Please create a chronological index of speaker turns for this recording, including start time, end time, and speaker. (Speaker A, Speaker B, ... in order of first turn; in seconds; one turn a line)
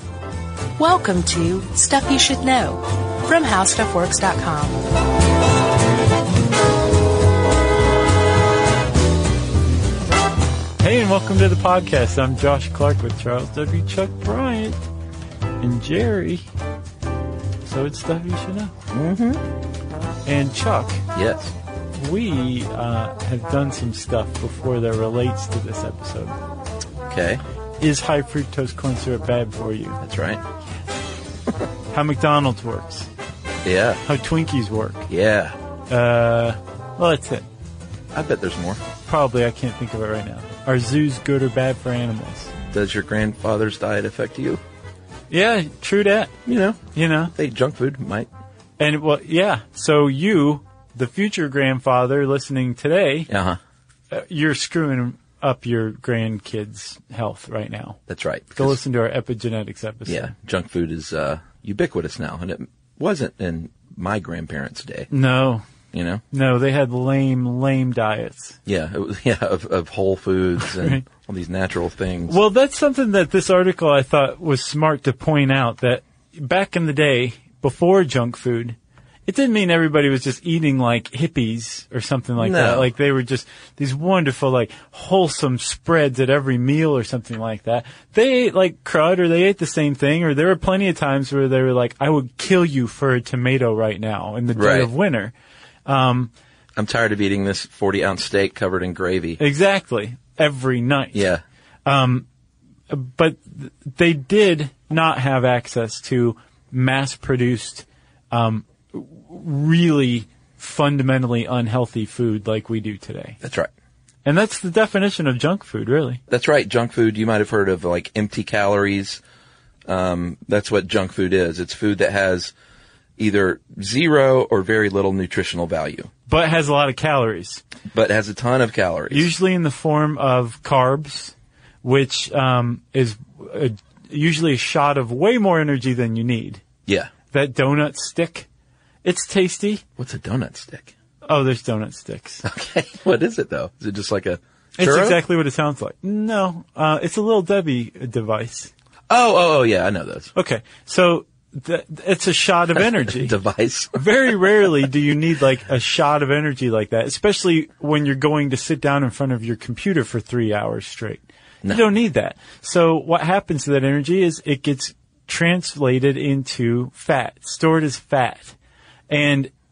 Speaker A: 0.8-4.8
Speaker B: 10.8-14.9
Speaker B: 15.6-16.4
Speaker B: 17.6-18.7
Speaker C: 18.9-19.4
Speaker B: 20.2-21.0
Speaker C: 21.1-21.5
Speaker B: 21.9-26.3
Speaker C: 27.1-27.4
Speaker B: 27.8-30.0
Speaker C: 30.0-30.4
Speaker B: 31.9-33.1
Speaker C: 33.6-34.0
Speaker B: 34.0-35.1
Speaker C: 35.1-35.5
Speaker B: 35.9-37.5
Speaker C: 38.1-38.8
Speaker B: 39.0-42.5
Speaker C: 42.7-44.6
Speaker B: 45.3-46.3
Speaker C: 46.5-48.3
Speaker B: 46.9-47.3
Speaker B: 48.8-53.3
Speaker C: 53.3-53.6
Speaker B: 54.1-58.0
Speaker C: 58.1-58.8
Speaker B: 58.5-60.3
Speaker C: 60.0-65.1
Speaker B: 65.1-65.6
Speaker C: 65.9-66.2
Speaker B: 66.3-68.6
Speaker C: 68.7-72.4
Speaker B: 70.7-71.0
Speaker B: 72.3-78.8
Speaker B: 79.3-95.3
Speaker C: 82.4-82.9
Speaker C: 94.5-94.9
Speaker B: 95.8-96.3
Speaker C: 96.8-99.4
Speaker B: 99.4-101.2
Speaker C: 101.1-101.4
Speaker B: 101.8-102.2
Speaker B: 102.9-113.4
Speaker C: 113.4-113.7
Speaker B: 114.2-116.2
Speaker C: 116.3-119.2
Speaker C: 119.9-122.5
Speaker C: 123.2-126.1
Speaker B: 126.3-127.6
Speaker C: 127.9-129.3
Speaker B: 129.1-136.6
Speaker B: 137.3-138.5
Speaker B: 139.0-139.8
Speaker C: 140.0-140.9
Speaker B: 141.2-142.4
Speaker C: 142.4-145.2
Speaker B: 144.8-148.7
Speaker C: 149.1-150.3
Speaker B: 150.3-153.3
Speaker C: 153.1-154.0
Speaker B: 153.9-168.5
Speaker B: 169.1-169.5